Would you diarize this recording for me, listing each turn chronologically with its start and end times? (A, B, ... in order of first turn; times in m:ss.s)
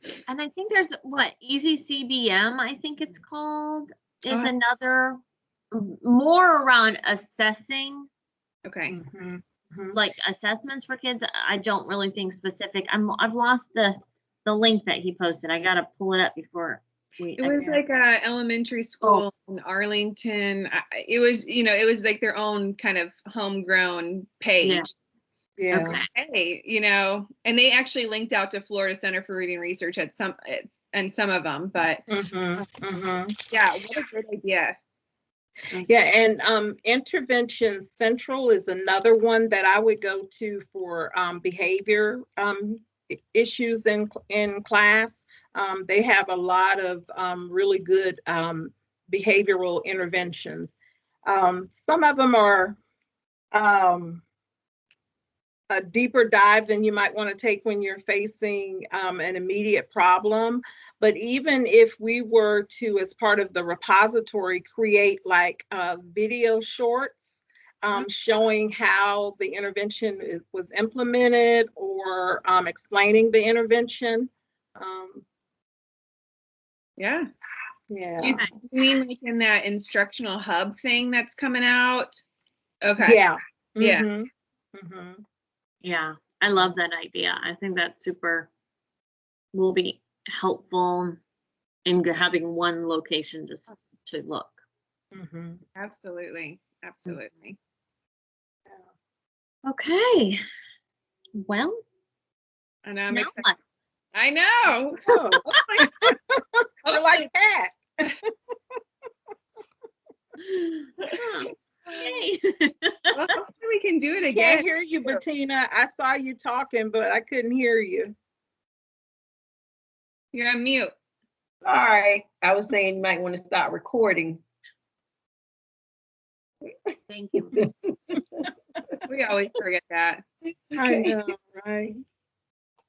0:00.3-0:05.2 A
0:04.3-0:04.5 B
0:05.7-0:08.1 A
0:08.6-0:09.0 B
0:08.9-0:10.0 C
0:09.9-0:17.8 A
0:17.4-0:24.9 B
0:24.6-0:24.9 A
0:25.6-0:26.0 C
0:25.7-0:26.1 A
0:25.8-0:32.0 B
0:32.1-0:33.4 C
0:33.5-0:34.8 B
0:35.9-0:50.8 C
0:51.3-0:52.8 C
0:53.5-0:54.2 C
0:55.7-1:15.2 C
1:17.0-1:17.3 B
1:17.9-1:18.4 C
1:18.2-1:22.2 B
1:18.2-1:18.5 A
1:22.8-1:23.2 B
1:23.0-1:25.2 C
1:23.8-1:24.0 B
1:25.8-1:28.5 A
1:29.5-1:31.2 A
1:31.8-1:34.6 A
1:35.1-1:35.6 C
1:35.8-1:37.6 B
1:39.6-1:40.4 A
1:41.4-1:41.8 A
1:42.8-1:43.5 B
1:43.1-1:43.6 A
1:44.1-1:46.0 B
1:45.1-1:48.1 C
1:46.9-1:47.3 B
1:50.5-1:53.3 A
1:53.1-1:55.2 B
1:54.3-1:58.2 C
2:00.3-2:00.9 B
2:01.6-2:04.4 D
2:07.1-2:07.6 A
2:09.1-2:10.2 B
2:10.7-2:12.0 C